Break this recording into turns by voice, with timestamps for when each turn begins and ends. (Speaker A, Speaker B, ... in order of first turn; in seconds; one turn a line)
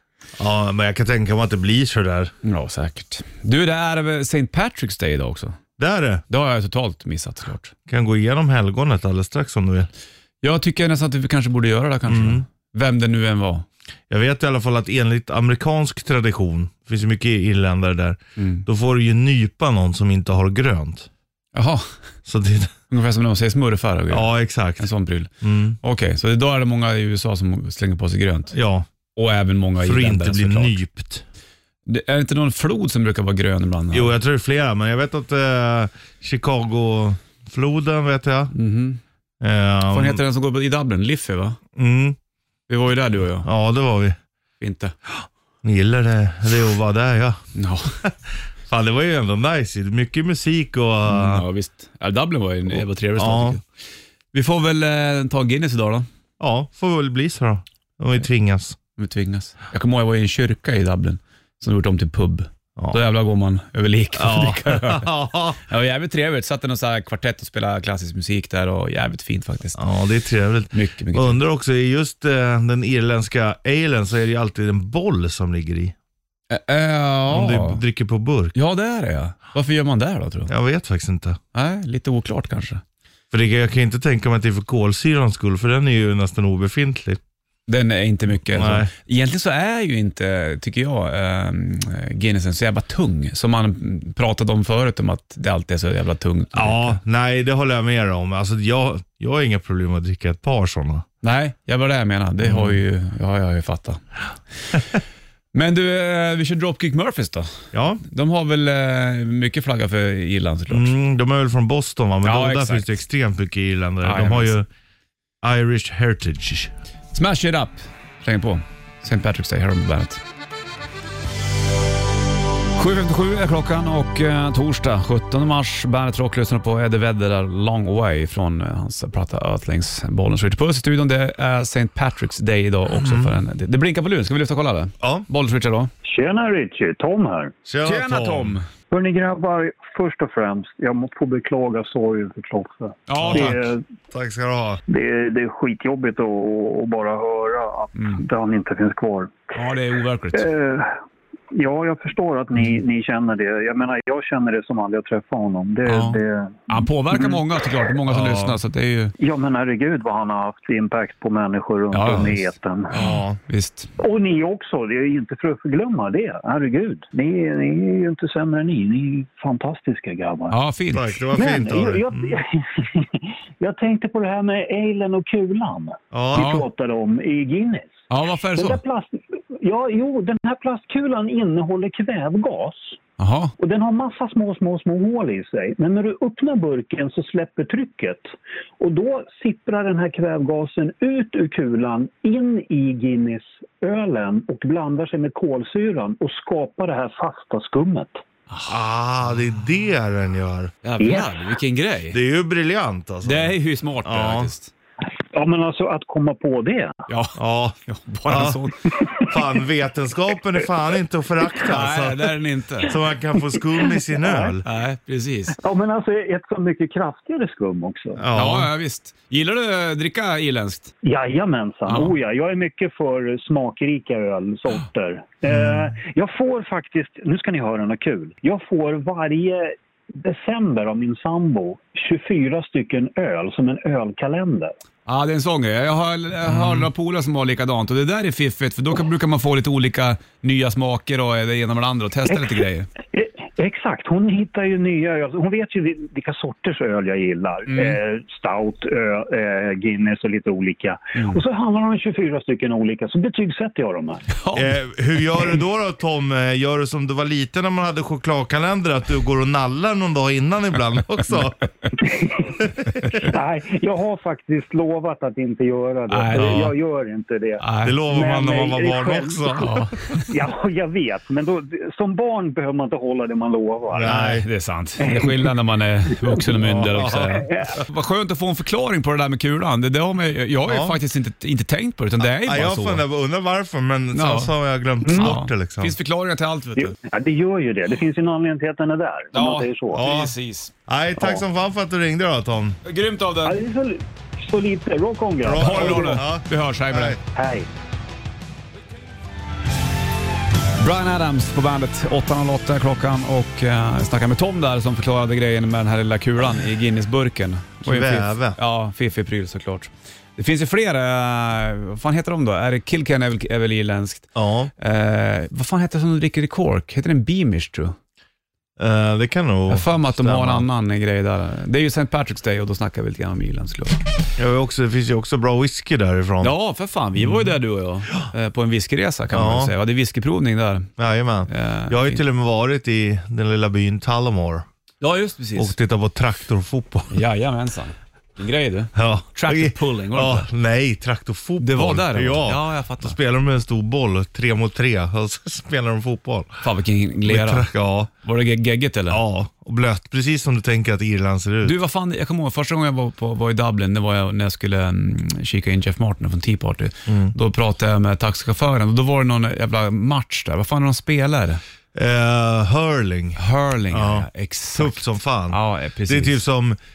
Speaker A: 0.4-2.3
Speaker B: 2.4-5.6
Speaker A: 5.8-6.2
Speaker B: 6.3-7.7
Speaker A: 7.9-9.9
Speaker B: 10.4-13.7
Speaker A: 12.1-12.4
Speaker A: 14.1-21.1
Speaker B: 18.4-18.6
Speaker B: 21.5-21.9
Speaker A: 22.2-22.7
Speaker B: 22.9-28.5
Speaker A: 24.1-24.9
Speaker A: 25.4-25.8
Speaker A: 28.5-28.9
Speaker B: 29.1-30.8
Speaker A: 29.8-31.2
Speaker B: 31.9-34.1
Speaker A: 33.9-38.5
Speaker B: 38.5-39.0
Speaker A: 39.4-40.2
Speaker B: 39.9-41.6
Speaker A: 41.8-42.2
Speaker B: 42.7-43.5
Speaker A: 43.4-44.2
Speaker B: 44.6-44.9
Speaker A: 45.6-47.4
Speaker B: 47.5-48.0
Speaker A: 48.0-51.4
Speaker B: 51.1-53.6
Speaker A: 53.1-53.6
Speaker B: 54.3-56.1
Speaker A: 56.4-58.8
Speaker B: 59.0-69.8
Speaker A: 64.2-65.6
Speaker A: 69.8-75.9
Speaker B: 70.7-71.4
Speaker B: 76.5-77.8
Speaker A: 77.3-78.5
Speaker B: 78.5-80.5
Speaker A: 80.5-81.4
Speaker B: 81.5-82.8
Speaker A: 83.3-87.2
Speaker B: 87.7-97.0
Speaker A: 88.5-88.9
Speaker A: 96.5-101.0
Speaker B: 101.2-104.0
Speaker A: 102.4-102.8
Speaker B: 105.5-110.9
Speaker A: 107.7-108.0
Speaker A: 110.7-114.7
Speaker B: 112.2-112.9
Speaker B: 114.0-114.5
Speaker A: 115.4-116.7
Speaker B: 117.1-120.2
Speaker B: 122.8-135.9
Speaker A: 132.9-133.3
Speaker A: 135.0-135.2
Speaker C: 136.0-137.5
Speaker A: 137.7-138.5
Speaker B: 137.8-138.7
Speaker C: 138.9-143.8
Speaker B: 143.1-143.6
Speaker A: 143.2-143.6
Speaker A: 144.1-144.8
Speaker C: 144.9-149.5
Speaker B: 147.9-148.2
Speaker B: 149.5-150.5
Speaker C: 150.3-151.0
Speaker C: 151.5-157.4
Speaker B: 155.8-159.1
Speaker A: 158.1-158.6
Speaker C: 159.2-163.0
Speaker B: 161.9-163.9
Speaker A: 162.9-163.4
Speaker C: 164.0-170.6
Speaker B: 170.5-171.1
Speaker A: 170.9-172.3
Speaker C: 171.3-183.0
Speaker A: 176.1-176.4
Speaker B: 176.3-176.7
Speaker B: 178.1-178.8
Speaker B: 183.2-183.5
Speaker C: 183.6-198.2
Speaker A: 198.7-200.7
Speaker B: 200.8-202.2
Speaker C: 201.0-201.3
Speaker A: 202.1-204.5
Speaker B: 203.2-204.7
Speaker C: 205.3-207.1
Speaker B: 207.1-209.0
Speaker A: 207.3-208.6
Speaker A: 209.2-214.6
Speaker B: 211.6-212.9
Speaker C: 214.1-214.5
Speaker B: 214.6-215.6
Speaker C: 215.6-218.2
Speaker A: 218.2-218.7
Speaker B: 218.3-220.9
Speaker C: 221.0-234.7
Speaker B: 221.9-222.1
Speaker B: 235.1-242.9
Speaker A: 236.5-236.9
Speaker C: 243.1-254.3
Speaker B: 247.7-248.0
Speaker B: 254.3-254.7
Speaker A: 254.5-261.7
Speaker C: 262.0-274.2
Speaker A: 262.6-263.2
Speaker B: 266.1-266.7
Speaker B: 267.6-268.0
Speaker A: 267.8-269.9
Speaker B: 269.6-270.3
Speaker A: 273.9-274.5
Speaker B: 274.0-283.0
Speaker C: 275.0-275.5
Speaker A: 276.6-277.4
Speaker C: 277.2-277.8
Speaker A: 280.7-281.0
Speaker A: 282.2-285.9
Speaker B: 284.1-284.5
Speaker B: 285.0-286.9
Speaker C: 286.8-290.0
Speaker B: 289.3-290.7
Speaker A: 289.9-290.3
Speaker A: 290.9-292.8
Speaker B: 292.8-293.6
Speaker C: 293.4-296.2
Speaker A: 295.4-297.2
Speaker B: 295.6-297.2
Speaker C: 297.3-297.7
Speaker B: 300.8-317.9
Speaker A: 307.8-308.6
Speaker A: 314.3-314.7
Speaker A: 318.8-320.6
Speaker B: 319.7-324.0
Speaker A: 324.4-326.5
Speaker B: 326.4-330.9
Speaker A: 329.3-329.7
Speaker A: 331.0-334.6
Speaker B: 331.5-332.2
Speaker B: 335.0-335.7
Speaker A: 335.6-337.2
Speaker B: 337.1-340.5
Speaker A: 338.9-346.6
Speaker B: 341.6-343.1
Speaker B: 346.6-347.7
Speaker A: 347.2-348.1
Speaker B: 348.2-349.2
Speaker A: 349.1-351.7
Speaker B: 351.6-361.6
Speaker A: 357.1-357.3
Speaker A: 361.9-363.4
Speaker B: 363.4-366.4
Speaker A: 363.9-366.8